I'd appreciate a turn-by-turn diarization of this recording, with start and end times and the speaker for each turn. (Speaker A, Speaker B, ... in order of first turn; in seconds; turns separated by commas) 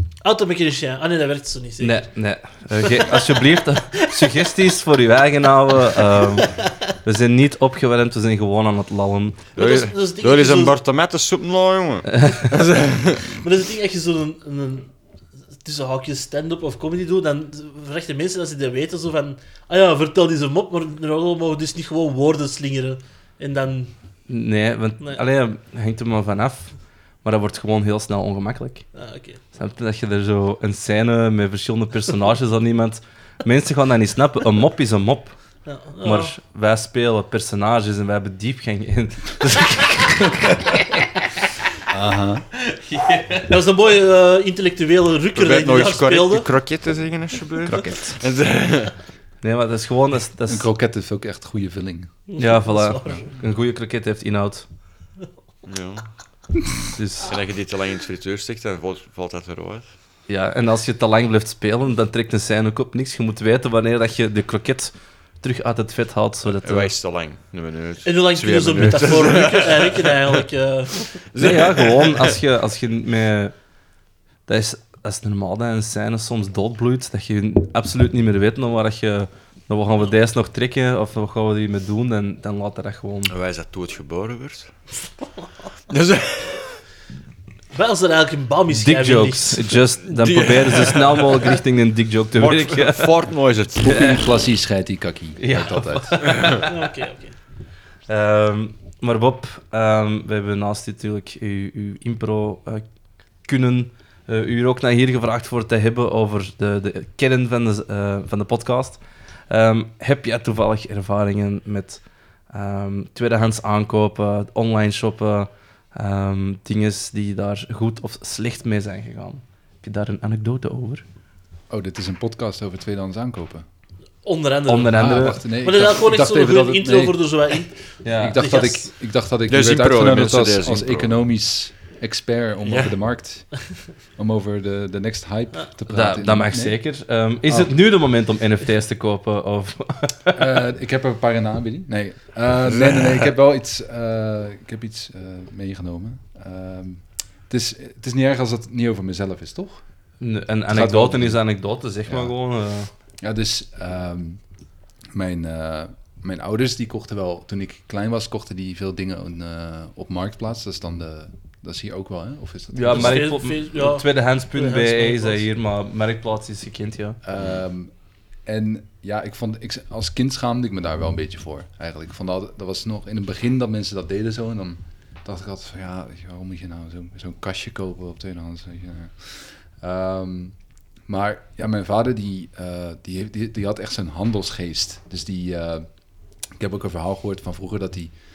Speaker A: 0.2-2.0, Speaker B: 1.8-9.4, Speaker C: 9.5-13.3, Speaker A: 9.6-10.8, Speaker A: 13.3-14.9, Speaker A: 15.6-23.9, Speaker B: 24.3-26.7, Speaker B: 27.2-28.9, Speaker A: 28.9-29.4, Speaker B: 29.5-35.4, Speaker A: 35.6-36.3, Speaker B: 36.0-41.0, Speaker D: 41.9-42.4, Speaker B: 42.7-43.6, Speaker A: 43.5-46.5, Speaker C: 45.3-48.9, Speaker B: 47.6-48.2, Speaker B: 49.4-50.7, Speaker D: 50.5-52.2, Speaker A: 52.3-53.3, Speaker B: 52.4-54.6, Speaker C: 55.6-56.0, Speaker B: 57.0-57.3, Speaker C: 57.2-59.9, Speaker B: 60.3-66.9, Speaker C: 66.6-70.4, Speaker A: 68.0-71.1, Speaker C: 71.1-72.4, Speaker B: 71.4-73.5, Speaker B: 74.5-83.3, Speaker C: 83.3-84.7, Speaker C: 85.9-86.7, Speaker A: 87.7-89.8, Speaker B: 88.7-93.1, Speaker C: 90.2-91.2, Speaker C: 92.3-93.9, Speaker D: 93.8-96.3, Speaker B: 93.9-94.2, Speaker B: 95.4-96.8, Speaker A: 96.7-97.3, Speaker B: 98.1-102.8, Speaker B: 103.4-121.0, Speaker D: 121.7-123.6, Speaker A: 124.2-128.8, Speaker B: 124.7-125.5, Speaker D: 124.9-127.3, Speaker B: 128.0-128.4, Speaker D: 128.2-136.8, Speaker C: 129.5-131.2, Speaker C: 132.6-132.9, Speaker B: 135.9-140.4, Speaker D: 137.5-137.8, Speaker D: 140.3-149.8, Speaker B: 150.2-152.9, Speaker D: 150.7-151.5, Speaker D: 152.1-152.3, Speaker D: 153.2-154.4, Speaker D: 155.1-163.3, Speaker B: 162.7-167.2, Speaker A: 162.9-165.4, Speaker D: 167.2-167.9, Speaker D: 168.4-185.9, Speaker D: 186.5-188.1